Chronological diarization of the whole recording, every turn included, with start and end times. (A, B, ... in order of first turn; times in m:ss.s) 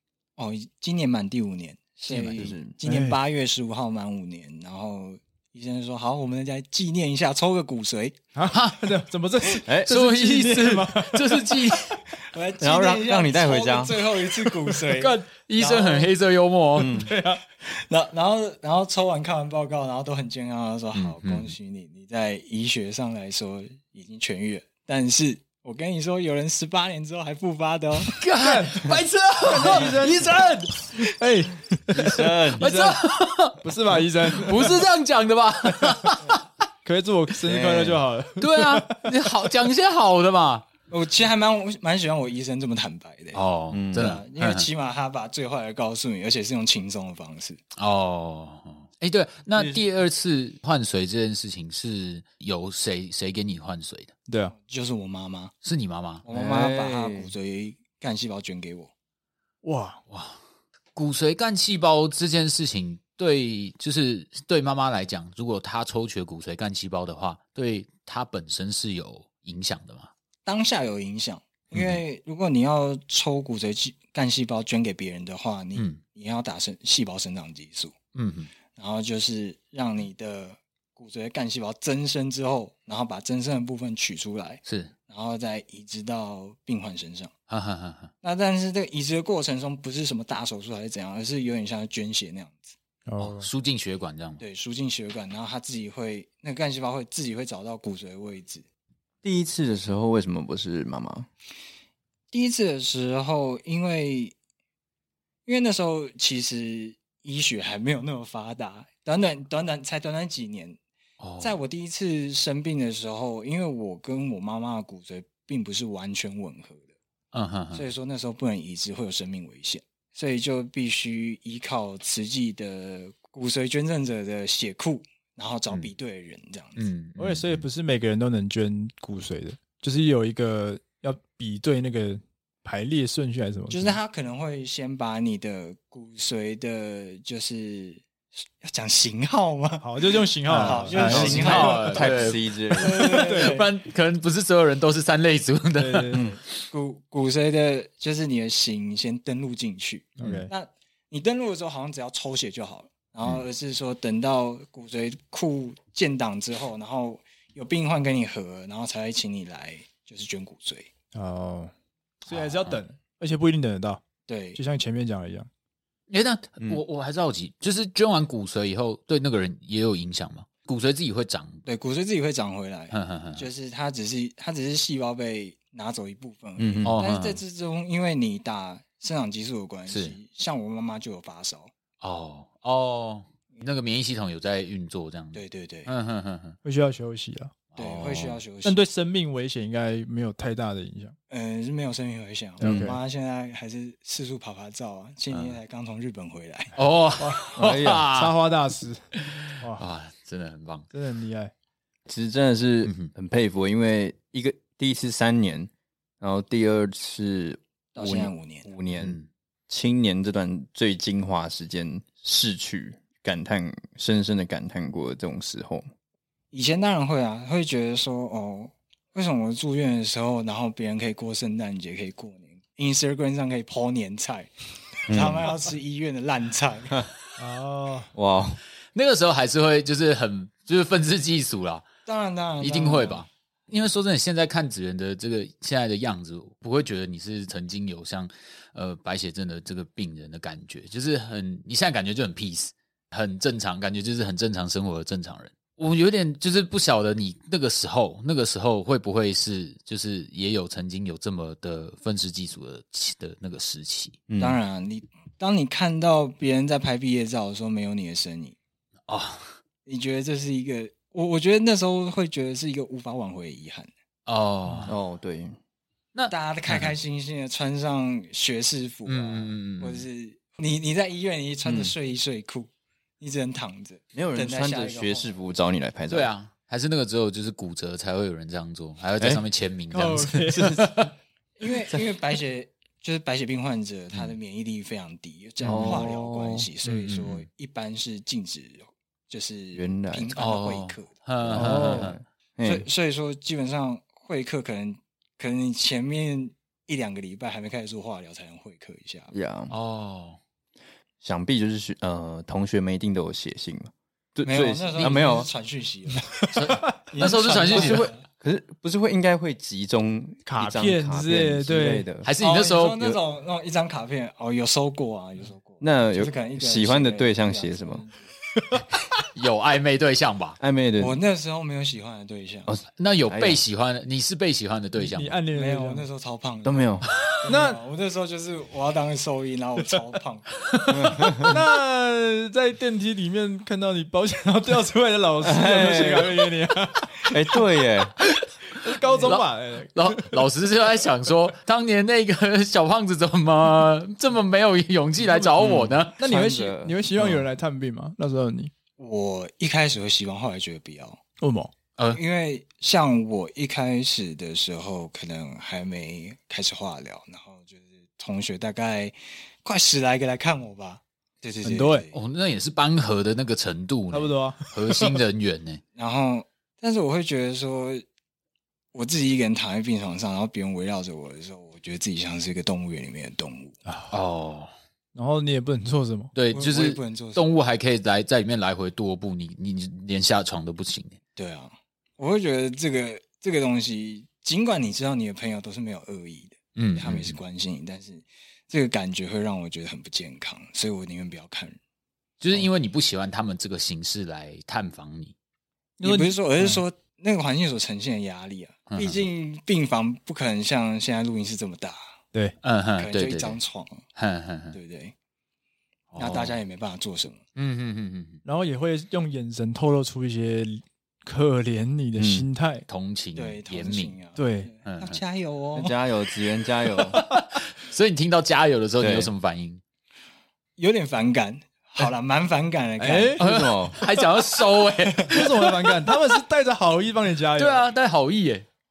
0:00.4-0:08.2 A
0:02.1-0:02.7 B
0:02.8-0:03.2 C
0:08.3-0:12.0 C
0:08.5-0:08.9 D
0:09.8-0:12.0 D
0:12.2-0:16.1 A
0:12.6-0:14.0 B
0:14.9-0:17.0 D
0:16.8-0:17.1 B
0:16.8-0:17.4 C
0:17.6-0:28.2 A
0:20.9-0:21.5 D
0:28.0-0:30.7 D
0:28.4-0:28.9 C
0:29.4-0:33.0 C
0:29.6-0:29.9 A
0:32.0-0:32.7 B
0:32.6-0:36.4 D
0:33.6-0:34.8 C
0:36.8-0:39.0 C
0:37.4-0:38.0 B
0:38.4-0:40.7 D
0:40.9-0:43.4 A
0:43.3-0:44.7 D
0:43.7-0:44.2 B
0:43.9-0:47.6 A
0:47.8-0:54.1 D
0:49.5-0:49.8 B
0:54.3-0:54.5 C
0:54.5-0:55.5 A
0:55.6-0:56.2 D
0:56.2-0:58.9 A
0:56.3-0:57.3 B
0:59.6-1:00.0 C
1:00.1-1:00.4 D
1:00.9-1:10.1 D
1:10.4-1:17.9 A
1:11.7-1:12.0 D
1:15.8-1:16.0 D
1:18.1-1:18.5 D
1:18.7-1:27.3 A
1:24.6-1:24.9 D
1:27.5-1:28.1 D
1:28.2-1:32.7 A
1:33.1-1:33.5 C
1:33.2-1:34.4 D
1:34.4-1:38.6 A
1:39.2-1:41.3 B
1:42.3-1:44.3 A
1:45.4-1:50.8 A
1:51.2-1:51.6 D
1:51.4-1:56.9 A
1:57.3-1:57.8 D
1:57.7-2:06.8 A
2:06.8-2:07.6 D
2:07.2-2:14.0 C
2:13.7-2:18.0 A
2:18.6-2:19.9 A
2:19.8-2:22.0 C
2:20.5-2:22.2 A
2:20.5-2:26.3 D
2:21.0-2:23.0 B
2:22.7-2:23.7 A
2:23.1-2:23.6 C
2:25.8-2:26.2 C
2:26.1-2:26.4 B
2:26.7-2:40.9 A
2:30.2-2:30.5 C
2:41.1-2:41.7 C
2:42.2-2:44.0 C
2:42.3-2:42.8 D
2:44.3-2:44.6 A
2:44.5-2:45.5 C
2:46.1-2:51.6 D
2:51.6-3:01.7 A
2:52.9-2:53.5 D
2:56.6-2:57.0 B
2:56.8-2:57.4 D
2:59.9-3:00.2 D
3:02.0-3:06.6 D
3:05.3-3:05.9 A
3:06.6-3:07.5 C
3:07.7-3:08.4 D
3:07.8-3:08.8 A
3:08.6-3:11.2 C
3:11.3-3:16.7 A
3:12.6-3:13.0 C
3:12.6-3:12.9 B
3:15.3-3:15.6 D
3:16.8-3:18.3 D
3:17.2-3:17.5 C
3:17.6-3:18.1 B
3:18.1-3:19.0 C
3:19.2-3:20.9 D
3:20.9-3:21.5 C
3:22.1-3:25.7 B
3:22.8-3:23.1 D
3:26.2-3:29.2 B
3:27.9-3:28.7 A
3:29.0-3:29.3 D
3:29.7-3:35.9 B
3:36.5-3:44.5 A
3:45.1-3:47.0 A
3:45.1-3:45.5 B
3:47.4-3:48.1 C
3:48.1-3:48.6 B
3:48.9-3:51.9 D
3:52.0-3:53.2 A
3:52.6-4:14.2 D
4:14.3-4:14.6 B
4:14.4-4:18.6 A
4:19.1-4:19.6 D
4:19.8-4:23.9 A
4:24.3-4:25.0 D
4:24.9-4:25.6 B
4:26.1-4:26.9 D
4:26.3-4:35.3 A
4:29.0-4:30.0 D
4:31.6-4:31.9 B
4:34.1-4:36.3 B
4:36.1-4:41.1 D
4:39.9-4:40.9 C
4:40.5-4:41.0 B
4:41.6-4:51.6 A
4:45.6-4:46.7 B
4:46.8-4:47.4 D
4:49.7-4:50.3 B
4:50.3-4:52.2 D
4:51.5-4:52.8 B
4:51.5-4:52.1 C
4:52.6-4:59.3 A
4:59.3-4:59.7 B
4:59.7-5:00.4 D
5:01.2-5:05.5 B
5:04.4-5:06.5 A
5:06.5-5:06.9 C
5:06.5-5:08.1 D
5:07.1-5:08.2 A
5:07.7-5:12.3 B
5:10.4-5:12.1 C
5:12.2-5:13.0 D
5:12.4-5:18.2 A
5:15.8-5:18.0 B
5:19.3-5:20.6 D
5:20.6-5:21.1 B
5:21.0-5:22.7 A
5:22.7-5:23.6 B
5:23.0-5:25.4 D
5:25.0-5:26.0 C
5:25.5-5:26.9 A
5:26.6-5:27.1 B
5:27.4-5:30.5 A
5:27.4-5:27.8 C
5:30.9-5:31.6 B
5:31.5-5:37.5 C
5:35.4-5:36.5 B
5:37.3-5:38.1 B
5:38.8-5:40.4 C
5:39.0-5:39.4 A
5:39.2-5:46.1 D
5:45.6-5:47.4 B
5:46.2-5:48.7 C
5:49.0-5:51.2 A
5:51.4-5:51.7 C
5:52.1-6:02.2 A
6:01.6-6:02.1 C
6:02.1-6:05.8 D
6:04.1-6:05.2 C
6:06.0-6:08.0 A
6:08.9-6:13.8 A
6:13.9-6:14.1 C
6:14.1-6:14.7 D
6:15.1-6:16.3 C
6:16.3-6:21.2 D
6:16.5-6:17.4 A
6:21.4-6:31.8 A
6:26.8-6:27.4 D
6:32.4-6:35.3 D
6:36.0-6:36.8 C
6:36.0-6:42.0 A
6:38.9-6:39.2 D
6:42.6-6:43.6 D
6:43.0-6:44.0 A
6:44.2-6:44.8 D
6:44.7-6:45.1 A
6:46.1-6:46.6 D
6:46.2-6:47.4 A
6:47.6-6:48.4 D
6:48.4-6:52.8 C
6:52.2-6:52.5 B
6:52.9-6:54.2 D
6:53.3-6:56.0 A
6:54.4-6:54.7 C
6:54.8-6:55.2 D
6:55.7-6:57.2 B
6:57.1-6:59.8 D
6:59.0-6:59.3 B
7:00.8-7:03.4 A
7:03.0-7:03.4 C
7:03.4-7:04.0 B
7:03.4-7:05.8 D
7:05.3-7:07.9 C
7:07.6-7:08.6 D